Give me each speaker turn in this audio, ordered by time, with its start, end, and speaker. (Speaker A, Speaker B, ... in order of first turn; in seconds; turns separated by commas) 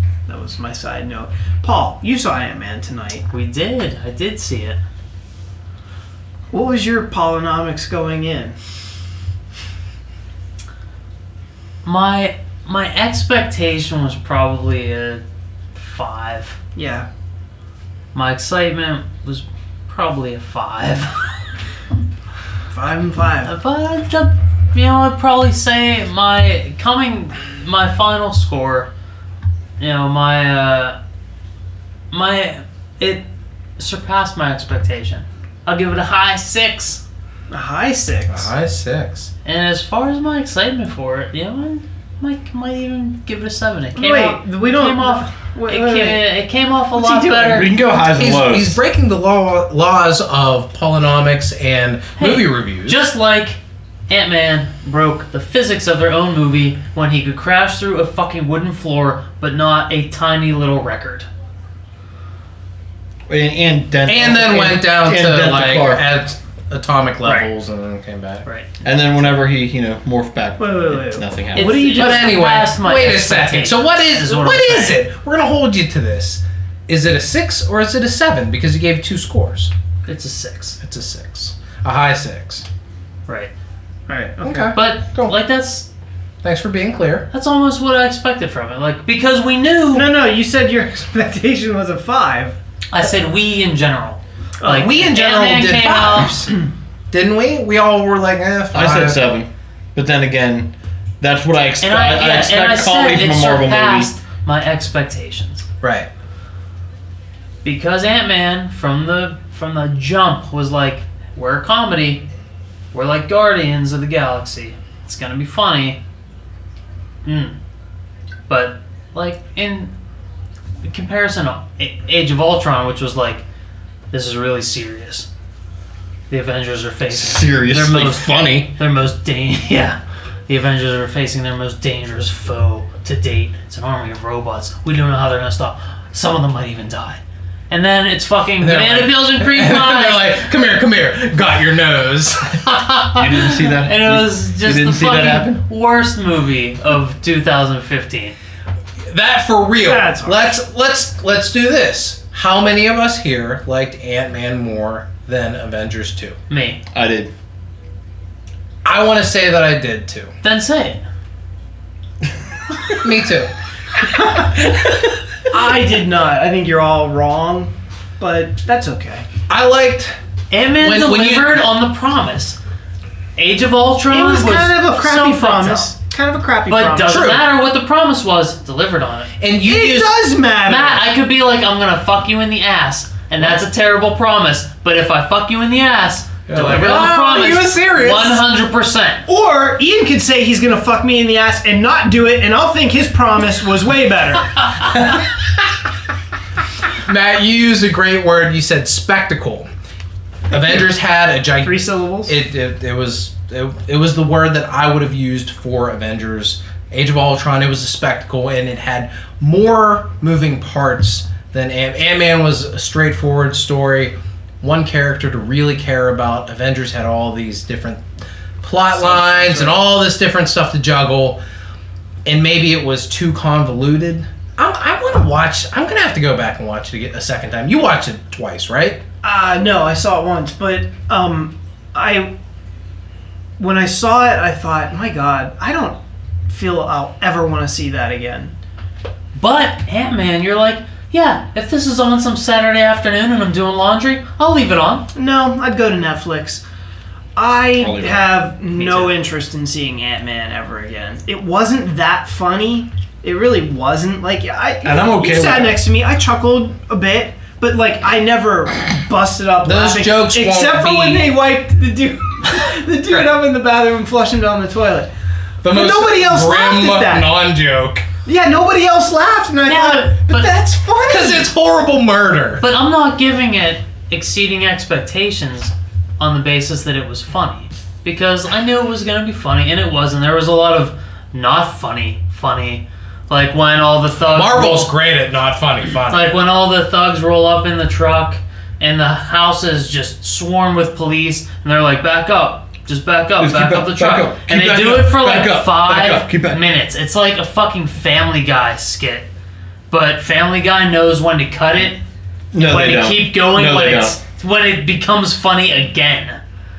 Speaker A: 0.3-3.3, Speaker B: 3.3-4.8, Speaker A: 6.5-8.6, Speaker B: 11.8-15.2, Speaker B: 15.8-16.6, Speaker A: 16.8-17.1, Speaker B: 18.1-21.2, Speaker A: 22.7-23.5, Speaker B: 23.4-28.9, Speaker B: 29.8-31.0, Speaker B: 32.1-33.2, Speaker B: 33.8-37.0, Speaker A: 37.5-38.5, Speaker C: 38.3-39.3, Speaker B: 39.5-47.7, Speaker A: 44.0-46.2, Speaker A: 47.0-47.7, Speaker D: 47.5-48.8, Speaker C: 48.1-53.0, Speaker B: 52.2-61.3, Speaker D: 63.3-66.0, Speaker C: 64.1-68.5, Speaker B: 67.2-67.5, Speaker D: 68.8-72.0, Speaker A: 70.6-72.5, Speaker B: 71.5-75.0, Speaker C: 72.0-79.7, Speaker B: 80.1-80.8, Speaker C: 80.8-82.7, Speaker B: 83.3-83.5, Speaker A: 84.1-84.8, Speaker C: 84.4-85.4, Speaker B: 84.7-85.9, Speaker C: 86.4-87.3, Speaker B: 87.3-90.1, Speaker A: 89.9-92.6, Speaker B: 92.9-96.4, Speaker A: 94.6-95.0, Speaker C: 94.7-99.2, Speaker D: 98.7-100.7, Speaker D: 101.2-104.1, Speaker B: 101.8-105.7, Speaker C: 105.8-106.1, Speaker B: 107.6-112.2, Speaker B: 112.9-116.0, Speaker B: 117.2-117.6, Speaker B: 118.5-119.9, Speaker B: 120.8-123.4, Speaker B: 124.1-125.3, Speaker B: 126.3-140.4, Speaker D: 127.1-128.8, Speaker C: 138.6-142.9, Speaker B: 142.7-148.3, Speaker D: 143.2-145.6, Speaker C: 149.1-156.4, Speaker A: 149.8-150.6, Speaker B: 156.5-156.8, Speaker D: 156.9-157.3, Speaker C: 158.8-160.3, Speaker B: 160.4-161.0, Speaker C: 162.9-163.5, Speaker A: 164.0-164.6, Speaker A: 165.5-169.3, Speaker C: 169.5-170.2, Speaker B: 170.5-172.6, Speaker C: 170.8-171.7, Speaker B: 173.4-175.9, Speaker A: 174.1-177.3, Speaker B: 176.7-179.3, Speaker C: 177.1-177.5, Speaker C: 179.4-180.2, Speaker A: 179.6-181.1, Speaker B: 180.7-189.3, Speaker C: 186.5-188.4, Speaker A: 189.3-194.8, Speaker C: 197.1-199.7, Speaker C: 200.5-218.0, Speaker A: 201.6-202.3, Speaker C: 218.6-221.4, Speaker A: 218.9-219.8, Speaker C: 222.2-229.0, Speaker A: 229.2-232.3, Speaker A: 233.6-238.5, Speaker B: 239.4-245.1, Speaker A: 245.1-246.6, Speaker A: 247.4-265.1, Speaker D: 247.8-248.3, Speaker B: 248.7-249.2, Speaker D: 254.8-255.8, Speaker C: 259.6-261.4, Speaker C: 265.6-268.1, Speaker A: 265.6-267.3, Speaker A: 268.2-271.5, Speaker B: 269.7-270.5, Speaker C: 271.1-272.6, Speaker B: 272.6-284.9, Speaker C: 284.3-286.3, Speaker B: 286.1-299.3, Speaker D: 293.4-296.6, Speaker B: 299.9-302.0, Speaker D: 302.5-304.2, Speaker B: 302.6-306.4